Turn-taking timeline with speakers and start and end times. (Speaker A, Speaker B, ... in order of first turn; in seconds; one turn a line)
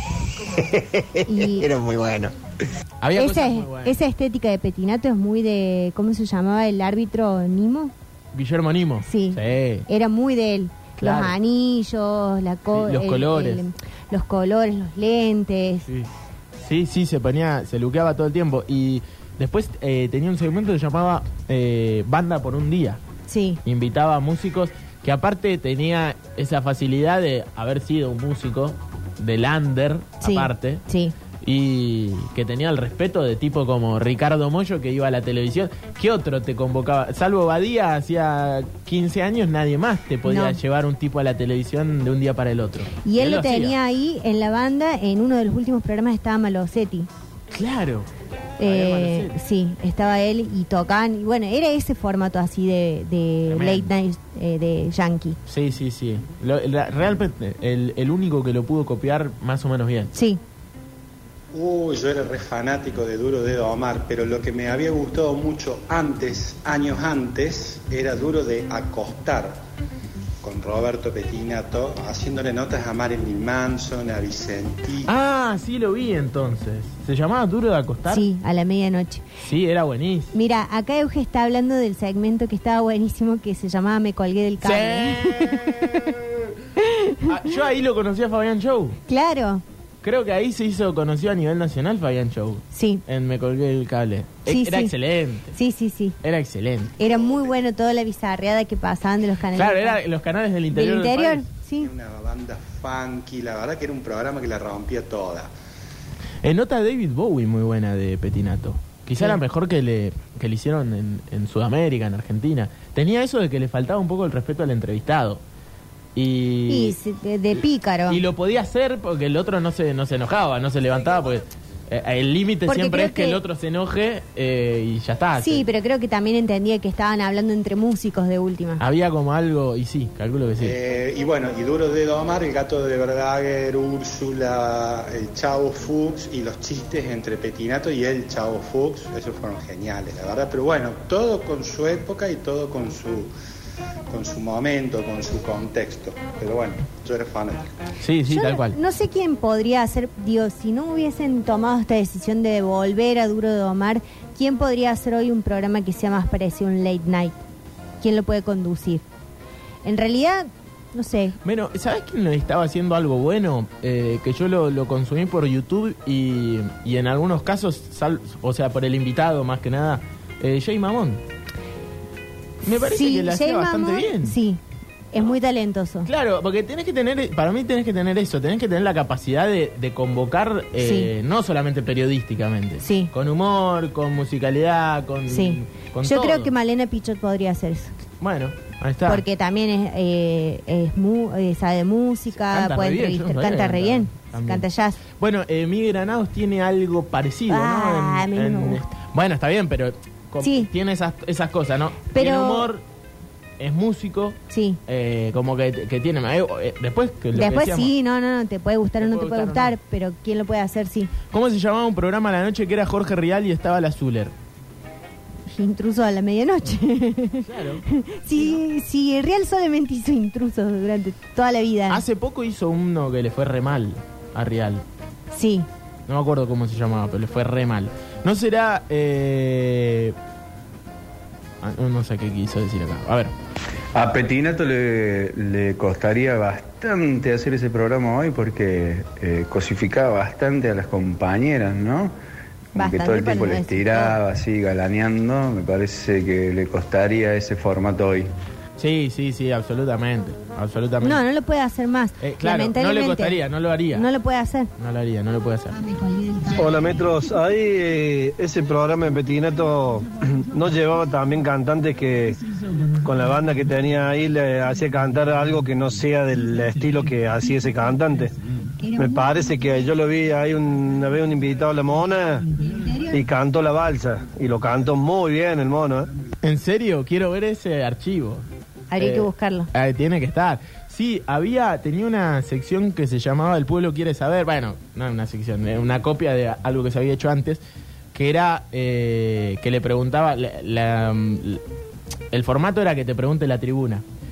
Speaker A: 0.4-2.3
Speaker B: 1.3-1.7
Speaker C: 3.0-3.9
Speaker B: 3.2-7.9
Speaker C: 8.3-9.9
Speaker B: 9.0-15.9
Speaker C: 11.0-11.3
Speaker C: 12.7-13.7
Speaker C: 16.6-23.0
Speaker B: 23.3-23.6
Speaker C: 23.6-30.8
Speaker B: 30.2-31.1
Speaker C: 31.4-43.8
Speaker B: 40.3-40.6
Speaker B: 43.0-47.1
Speaker C: 47.5-48.1
Speaker B: 48.6-55.4
Speaker C: 48.6-49.3
Speaker C: 53.5-53.9
Speaker C: 55.5-60.1
Speaker B: 60.1-60.4
Speaker D: 61.5-69.6
Speaker D: 70.4-75.1
Speaker C: 75.1-78.2
Speaker B: 78.1-79.2
Speaker C: 79.4-80.3
Speaker B: 80.3-85.8
Speaker C: 84.6-86.5
Speaker B: 86.8-87.3
Speaker C: 87.3-89.0
Speaker B: 89.1-89.6
Speaker C: 90.0-95.5
Speaker B: 92.7-93.0
Speaker B: 94.5-94.9
Speaker B: 95.5-96.2
Speaker C: 96.2-97.0
Speaker B: 97.0-100.0
Speaker D: 97.1-97.5
Speaker C: 99.5-101.5
Speaker B: 100.7-101.9
Speaker D: 101.8-105.5
Speaker C: 106.4-115.4
Speaker C: 116.2-117.0
Speaker B: 116.7-118.2
Speaker C: 118.1-125.6
Speaker B: 122.7-123.4
Speaker B: 125.4-128.8
Speaker C: 128.8-130.8
Speaker D: 130.6-143.3
Speaker D: 144.1-147.7
Speaker C: 148.0-148.8
Speaker B: 148.3-157.4
Speaker B: 158.0-159.1
Speaker B: 159.8-161.4
Speaker C: 161.4-171.2
Speaker C: 172.6-174.4
Speaker B: 172.8-174.6
Speaker B: 175.1-176.1
Speaker C: 176.1-186.5
Speaker B: 180.8-181.1
Speaker B: 182.8-183.1
Speaker B: 185.3-187.9
Speaker C: 188.2-189.2
Speaker B: 189.1-195.0
Speaker C: 192.4-202.8
Speaker B: 197.5-198.8
Speaker B: 200.4-200.7
Speaker B: 202.1-202.7
Speaker C: 203.6-207.9
Speaker B: 204.5-204.8
Speaker B: 207.3-211.1
Speaker C: 209.0-209.8
Speaker C: 211.3-214.3
Speaker B: 215.5-222.0
Speaker C: 217.4-217.8
Speaker C: 221.9-224.8
Speaker B: 225.3-225.7
Speaker C: 226.1-230.2
Speaker C: 231.6-233.3
Speaker E: 233.9-242.2
Speaker B: 242.8-244.2
Speaker E: 242.8-248.3
Speaker C: 248.8-251.2
Speaker B: 251.0-253.4
Speaker C: 252.2-254.1
Speaker B: 253.9-254.7
Speaker C: 254.8-255.8
Speaker F: 256.5-262.4
Speaker F: 263.0-268.3
Speaker F: 269.0-272.5
Speaker F: 273.1-276.1
Speaker C: 276.4-278.5
Speaker B: 278.9-279.7
Speaker C: 279.0-287.6
Speaker C: 288.1-291.6
Speaker C: 292.3-294.0